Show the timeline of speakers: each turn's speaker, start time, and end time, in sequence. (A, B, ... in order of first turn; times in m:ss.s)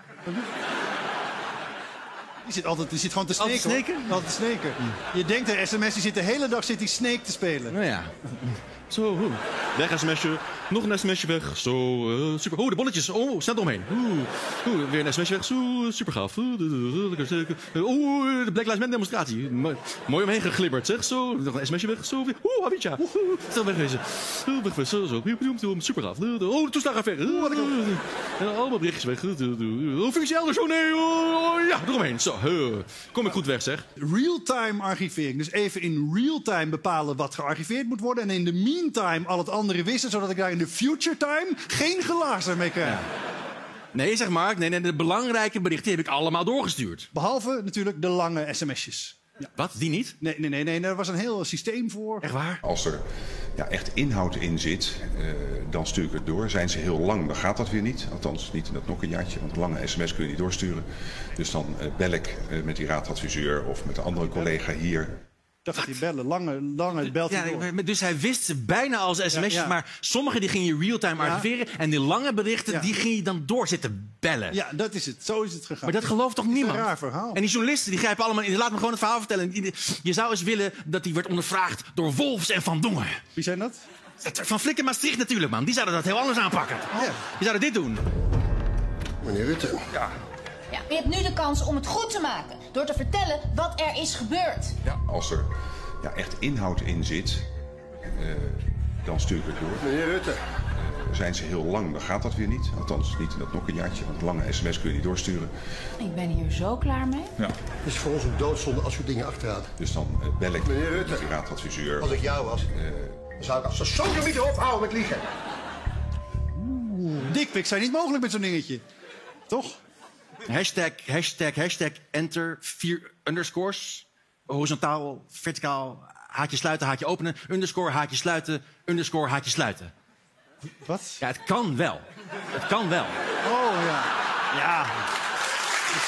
0:02.4-0:07.8 A
0:03.4-0:04.2 B
0:07.7-0:33.9 B
0:27.2-0:27.9 A
0:34.0-0:43.0 A
0:43.9-0:47.1 B
0:47.1-0:49.2 A
0:49.6-0:50.2 B
0:50.2-0:52.3 A
0:52.2-0:52.6 B
0:52.6-1:05.2 C
1:05.6-1:07.7 A
1:07.2-1:14.6 B
1:09.3-1:09.8 A
1:11.2-1:11.5 A
1:14.5-1:17.4 A
1:15.8-1:23.2 B
1:23.4-1:23.8 A
1:24.2-1:28.0 B
1:29.2-1:29.8 D
1:30.7-1:34.8 E
1:34.9-1:35.5 C
1:36.0-1:37.5 C
1:38.1-1:40.2 C
1:40.8-1:45.5 C
1:46.0-1:47.3 E
1:47.8-1:49.7 D
1:49.8-1:53.4 C
1:52.1-1:52.6 D
1:53.4-1:55.3 D
1:56.6-1:58.8 A
1:59.5-1:59.8 A
2:00.5-2:09.9 B
2:10.8-2:11.2 A
2:11.2-2:13.2 B
2:13.4-2:15.0 A